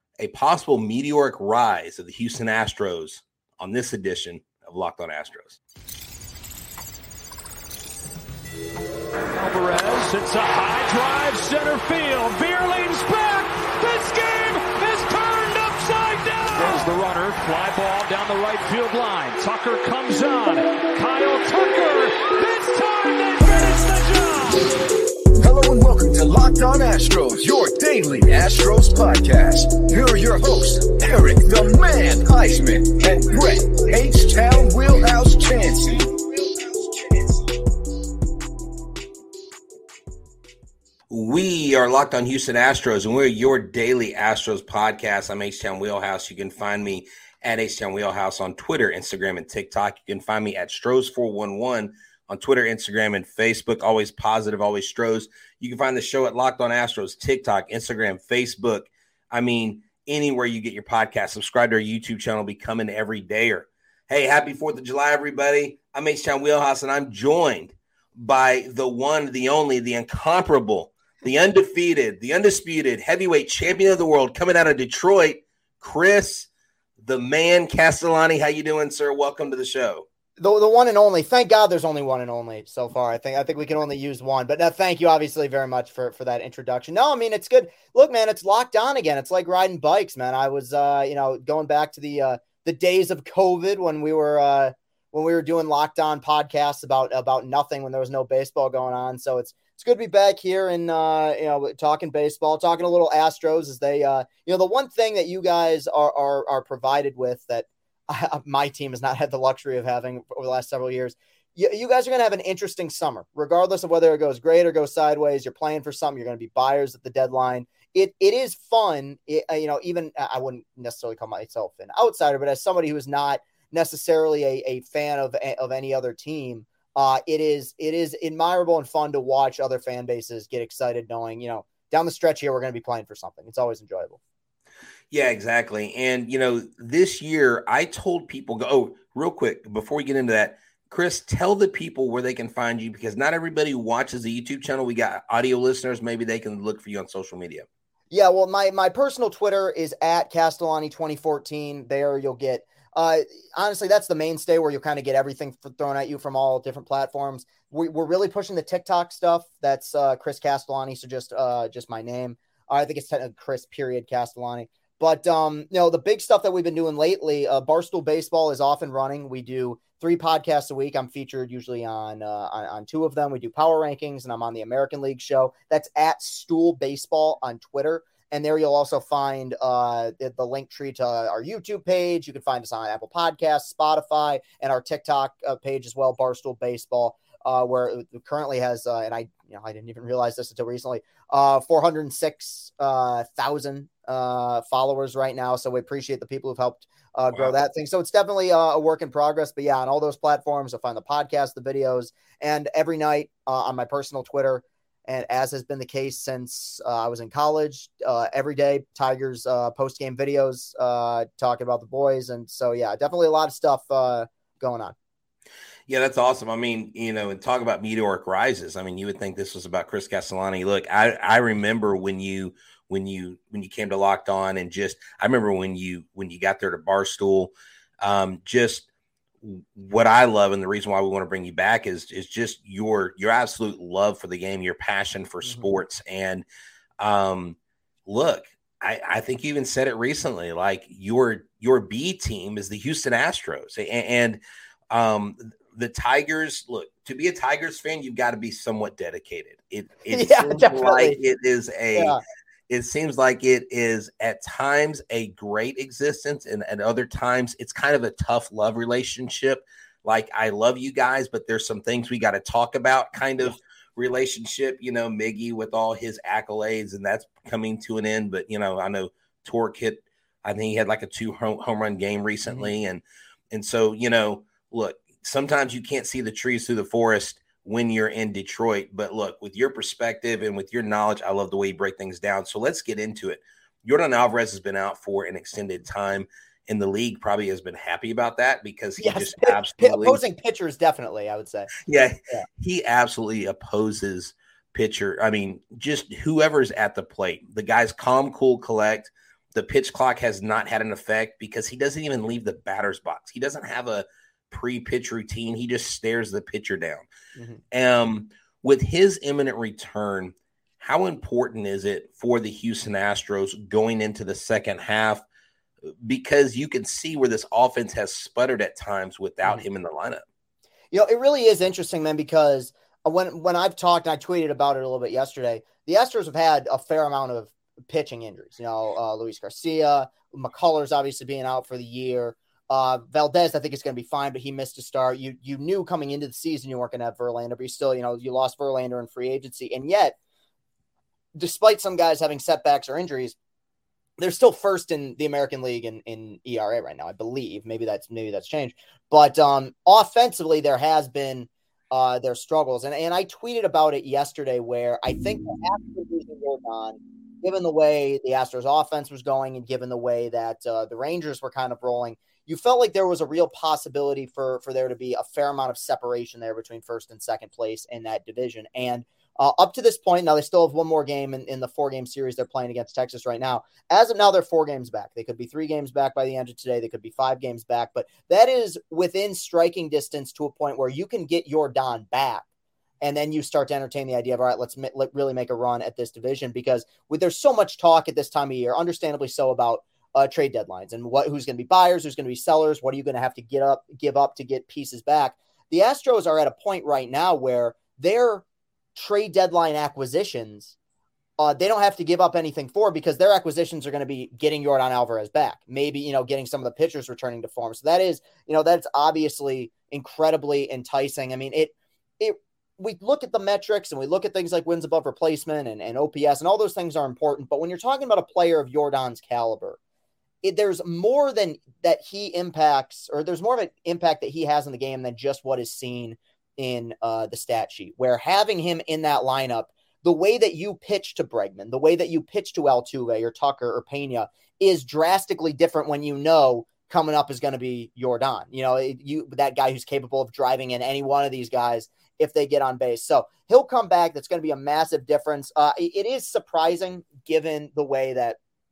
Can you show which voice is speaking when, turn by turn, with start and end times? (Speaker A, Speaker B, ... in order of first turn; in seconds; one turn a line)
Speaker A: 0.2-5.6
Speaker B: 9.3-24.7
Speaker C: 25.4-37.4
Speaker A: 41.1-76.5
Speaker A: 77.0-80.0
Speaker D: 80.4-134.2
Speaker A: 135.1-147.7
Speaker D: 148.1-214.9
Speaker A: 215.9-228.9
Speaker A: 229.4-236.4
Speaker D: 235.4-235.7
Speaker A: 237.0-252.2
Speaker D: 250.1-251.2
Speaker D: 251.9-252.2
Speaker A: 252.7-290.2
Speaker D: 289.0-291.7
Speaker A: 291.8-307.1
Speaker D: 307.3-307.6
Speaker A: 307.7-315.2
Speaker A: 316.0-320.2
Speaker D: 320.9-340.1
Speaker D: 341.3-343.4
Speaker D: 344.2-382.4
Speaker D: 383.0-398.4
Speaker D: 398.9-400.7
Speaker D: 401.4-419.8
Speaker D: 420.4-448.4